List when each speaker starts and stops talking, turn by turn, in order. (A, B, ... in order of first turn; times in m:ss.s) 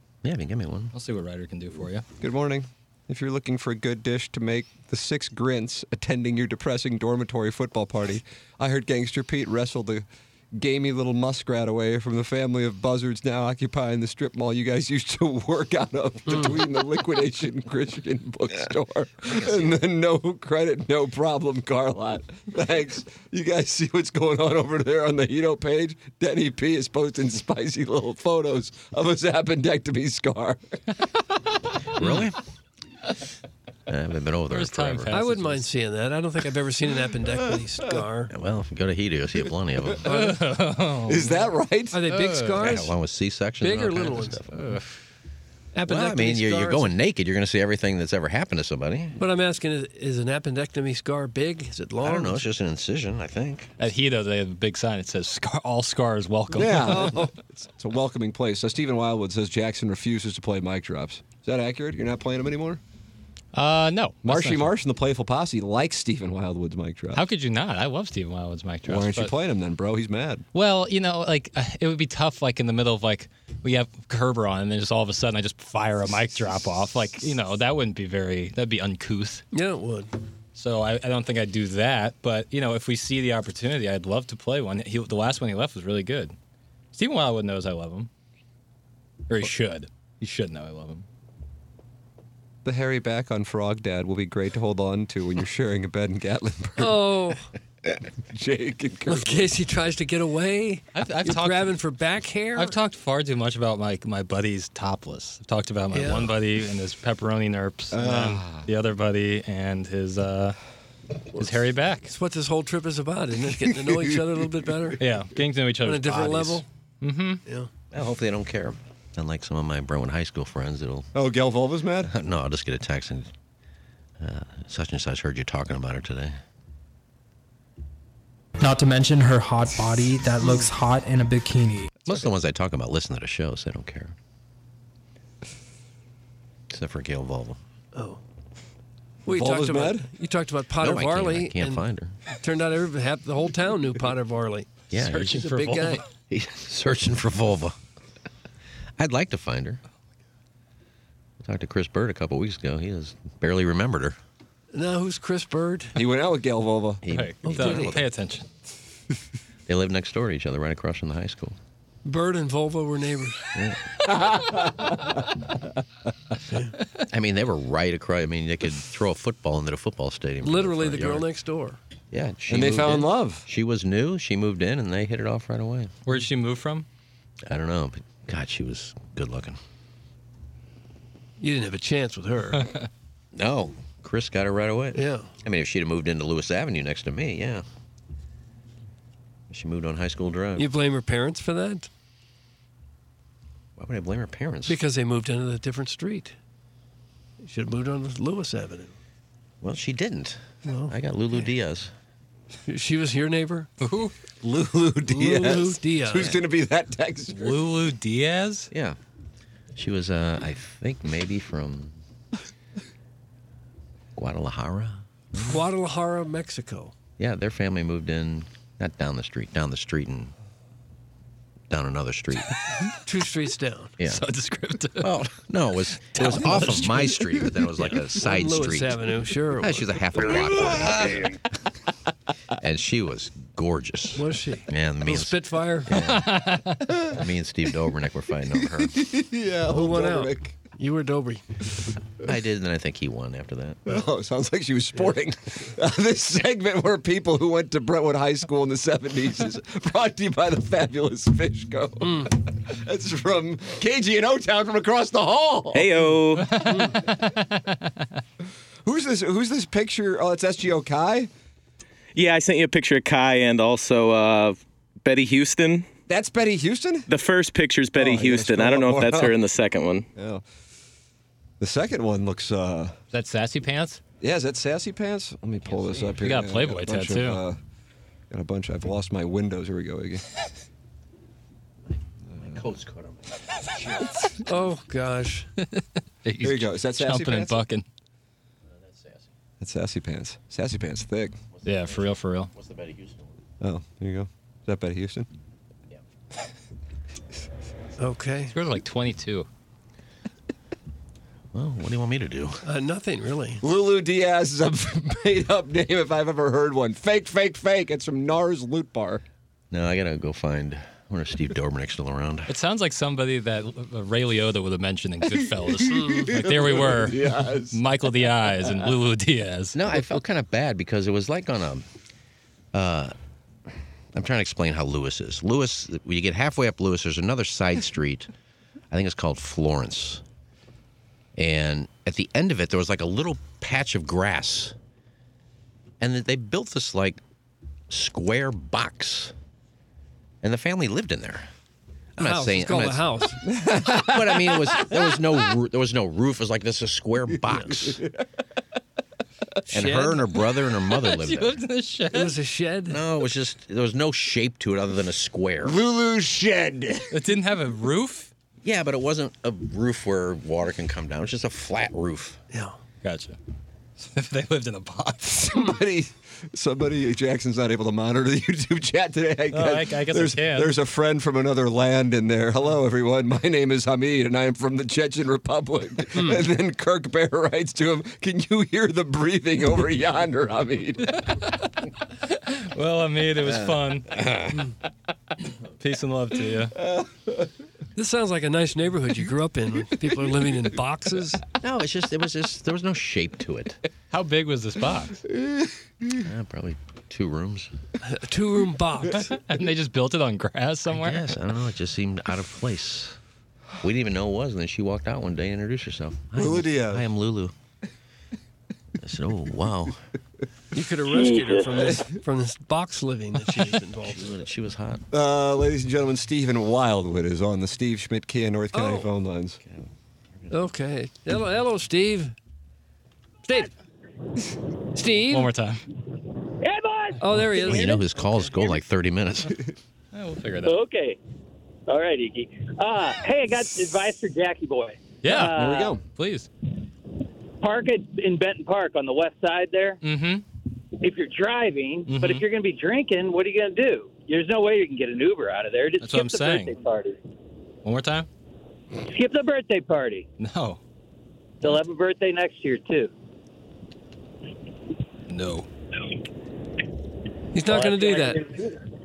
0:00.2-0:00.9 A
0:00.9-0:02.0 B
0:02.2-0:30.6 C
0:16.3-0:16.6 D
0:19.4-0:19.7 A
0:32.0-0:32.4 A
0:33.9-0:35.1 A
0:34.5-0:35.7 B
0:35.1-0:38.3 D
0:38.3-0:40.0 A
0:40.0-0:40.4 D
0:40.0-0:41.4 B
0:41.1-0:42.0 C
0:41.9-0:42.9 D
0:42.1-0:42.8 B
0:42.6-0:44.6 A
0:43.6-0:44.4 D
0:44.5-0:44.8 B
0:45.7-0:46.9 D
0:45.8-0:49.2 A
0:49.2-0:52.4 D
0:52.0-0:53.7 A
0:53.8-0:57.3 B
0:56.5-1:02.8 C
1:03.5-1:04.7 B
1:04.2-1:07.2 C
1:07.1-1:09.3 B
1:08.8-1:10.4 C
1:10.5-1:19.4 B
1:19.5-1:20.1 D
1:20.5-1:26.3 B
1:26.9-1:28.1 B
1:29.3-1:31.0 B
1:32.6-1:37.2 C
1:36.8-1:37.5 D
1:38.0-1:39.5 C
1:39.1-1:42.8 D
1:40.9-1:41.8 B
1:42.5-1:50.6 B
1:45.9-1:46.4 D
1:47.9-1:48.7 C
1:51.3-1:55.0 D
1:51.4-1:52.1 B
1:53.7-1:54.2 C
1:55.0-1:57.4 B
1:55.8-1:56.6 D
1:57.9-2:01.1 A
2:01.1-2:02.1 C
2:02.0-2:03.3 A
2:04.2-2:06.4 A
2:08.7-2:11.9 E
2:12.0-2:14.1 A
2:16.7-2:17.6 A
2:17.9-2:18.2 D
2:19.2-2:21.8 D
2:19.3-2:20.1 C
2:20.8-2:22.2 A
2:22.4-2:26.0 D
2:24.9-2:25.4 A
2:25.4-2:25.9 B
2:26.2-2:27.8 A
2:29.0-2:29.8 A
2:31.4-2:34.2 A
2:34.7-2:36.0 D
2:36.0-2:37.0 C
2:37.0-2:38.0 A
2:37.1-2:38.5 B
2:37.4-2:38.0 D
2:39.7-2:41.6 A
2:42.0-2:43.4 D
2:43.5-2:43.8 A
2:44.3-2:44.8 C
2:47.1-2:51.3 A
2:50.4-2:51.8 D
2:52.1-2:55.9 A
2:52.5-2:53.4 C
2:56.0-2:56.8 B
2:57.5-2:59.6 A
3:01.4-3:02.7 D
3:03.3-3:07.6 A
3:04.9-3:05.3 D
3:09.5-3:10.7 A
3:10.6-3:11.9 D
3:13.8-3:14.8 A
3:14.7-3:16.3 D
3:17.4-3:18.9 D
3:19.6-3:21.9 A
3:20.6-3:20.9 D
3:22.6-3:23.7 D
3:23.8-3:24.1 B
3:24.4-3:27.6 C
3:25.0-3:26.4 D
3:27.3-3:28.7 B
3:28.7-3:29.0 A
3:29.7-3:32.0 A
3:34.2-3:35.0 A
3:35.4-3:36.9 D
3:37.2-3:40.3 A
3:41.7-3:42.5 A
3:43.0-3:44.0 D
3:44.0-3:45.2 B
3:45.0-3:51.3 A
3:46.2-3:47.1 D
3:46.2-3:46.4 B
3:47.7-3:50.0 D
3:50.3-3:51.2 C
3:52.6-3:56.4 A
3:54.1-3:56.0 D
3:56.0-3:57.0 B
3:57.1-3:59.0 A
3:58.6-4:00.6 C
3:59.7-4:01.4 D
4:02.2-4:03.8 A
4:03.8-4:16.1 C
4:12.0-4:12.3 D
4:15.7-4:16.6 F
4:16.5-4:17.7 B
4:16.7-4:17.0 D
4:18.8-4:21.3 C
4:22.1-4:25.9 F
4:26.1-4:27.1 C
4:27.1-4:30.1 F
4:28.0-4:29.3 C
4:30.2-4:30.4 C
4:31.6-4:33.0 C
4:33.1-4:34.0 B
4:34.2-4:37.6 C
4:36.2-4:37.4 B
4:38.3-4:40.2 C
4:42.4-4:43.3 A
4:44.4-4:45.5 D
4:45.6-4:47.8 B
4:46.4-4:47.6 C
4:49.0-4:49.2 A
4:49.6-4:51.4 C
4:51.6-4:53.3 A
4:51.6-4:52.5 B
4:53.6-4:55.3 C
4:58.0-4:58.5 D
4:58.5-4:59.5 B
5:01.5-5:02.6 A
5:02.6-5:03.6 D
5:03.6-5:09.2 C
5:09.7-5:12.5 A
5:12.5-5:19.8 B
5:15.7-5:17.8 C
5:15.8-5:16.5 D
5:19.7-5:21.8 A
5:22.7-5:23.1 A
5:24.1-5:28.3 A
5:28.9-5:30.2 A
5:31.4-5:34.7 A
5:36.0-5:37.2 A
5:37.9-5:39.3 A
5:40.4-5:41.5 A
5:42.2-5:43.0 A
5:42.2-5:43.4 D
5:43.4-5:45.2 C
5:43.8-5:48.0 A
5:49.7-5:50.2 D
5:49.7-5:51.6 A
5:50.9-5:52.3 B
5:52.1-5:53.0 D
5:52.9-5:55.8 A
5:55.6-5:57.2 C
5:57.1-5:58.3 B
5:58.6-6:02.4 A
6:02.5-6:02.8 D
6:03.0-6:03.4 B
6:04.0-6:05.5 B
6:05.3-6:21.2 C
6:09.5-6:10.7 B
6:22.3-6:24.1 B
6:24.1-6:24.6 A
6:25.8-6:26.7 B
6:28.0-6:31.4 D
6:31.6-6:33.8 A
6:34.1-6:35.2 B
6:36.2-6:37.7 A
6:38.0-6:39.4 D
6:39.1-6:41.2 B
6:40.9-6:43.2 A
6:43.8-6:47.5 A
6:46.3-6:47.0 C
6:49.0-6:50.0 A
6:50.7-6:54.4 D
6:51.6-6:52.2 C
6:54.2-6:55.0 A
6:55.1-6:59.6 C
6:58.7-6:59.1 D
7:00.4-7:00.7 A
7:00.5-7:02.3 D
7:04.9-7:05.5 D
7:05.2-7:05.8 B
7:06.6-7:07.2 G
7:07.2-7:08.0 D
7:07.5-7:09.6 A
7:10.1-7:10.8 B
7:10.6-7:11.2 G
7:11.9-7:16.0 G
7:15.2-7:16.5 B
7:15.4-7:16.0 C
7:17.6-7:20.0 G
7:20.0-7:20.4 B
7:21.0-7:27.2 G
7:22.1-7:22.4 B
7:26.0-7:26.8 B
7:27.8-7:28.3 B
7:29.0-7:30.3 G
7:30.4-7:30.8 B
7:31.6-7:33.1 G
7:35.3-7:35.7 B
7:37.5-7:38.4 D
7:37.6-7:38.8 G